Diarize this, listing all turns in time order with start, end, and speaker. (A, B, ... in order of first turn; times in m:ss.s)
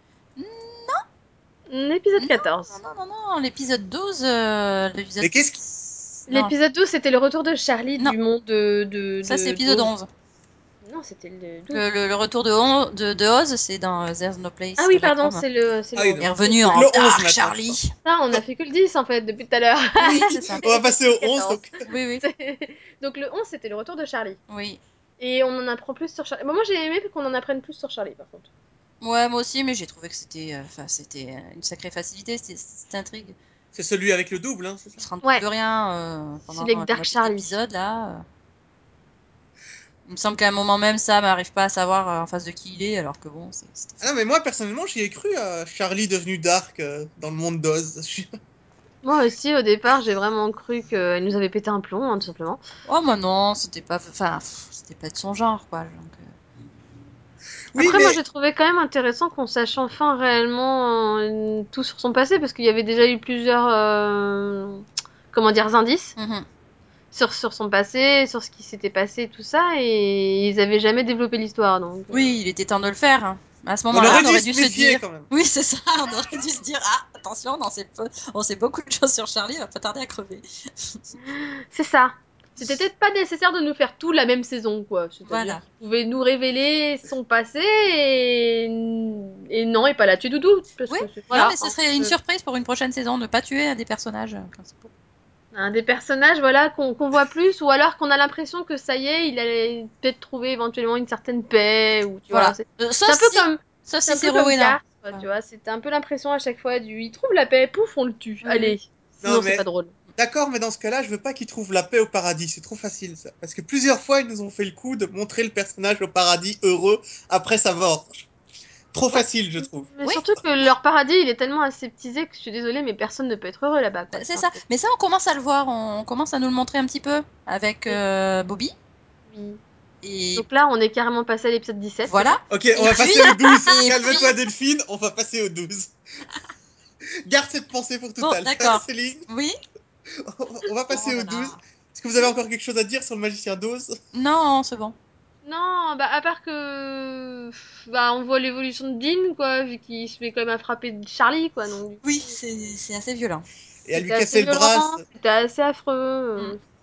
0:00.4-0:01.0 A
0:01.7-0:02.8 B
0:02.2-0:06.5 A
0:05.2-0:05.6 C
0:06.3-0:09.9 B
0:09.2-0:10.1 A
0:10.8-0:11.8 B
0:11.7-0:15.4 A
0:14.8-0:16.9 B
0:16.0-0:17.8 C
0:16.2-0:17.9 A
0:18.0-0:24.4 B
0:20.0-0:20.6 A
0:20.6-0:21.7 C
0:21.9-0:22.2 A
0:24.5-0:24.8 A
0:25.2-0:28.5 B
0:29.0-0:33.4 A
0:33.7-0:35.0 C
0:35.0-0:38.2 A
0:36.5-0:37.5 B
0:40.1-0:44.1 A
0:44.0-0:48.3 C
0:49.0-0:52.6 B
0:52.9-0:56.3 A
0:57.7-0:58.2 C
0:57.8-1:06.2 B
1:06.2-1:06.4 A
1:07.1-1:12.4 B
1:12.1-1:21.0 A
1:13.9-1:15.3 C
1:21.3-1:32.1 B
1:25.3-1:25.6 A
1:30.9-1:34.9 A
1:35.5-1:49.9 B
1:42.3-1:45.2 A
1:48.4-1:48.8 A
1:49.2-1:49.6 C
1:50.2-1:58.3 C
1:58.9-1:59.9 C
1:59.2-2:04.6 B
2:04.1-2:08.7 A
2:09.3-2:09.6 B
2:10.0-2:10.4 A
2:10.4-2:12.4 B
2:12.1-2:14.3 A
2:12.5-2:15.9 C
2:13.4-2:14.3 B
2:17.3-2:19.3 C
2:18.2-2:19.6 A
2:20.2-2:24.0 C
2:20.9-2:21.6 A
2:24.1-2:25.0 A
2:25.4-2:32.4 B
2:32.0-2:33.4 A
2:33.9-2:35.0 C
2:34.0-2:36.6 B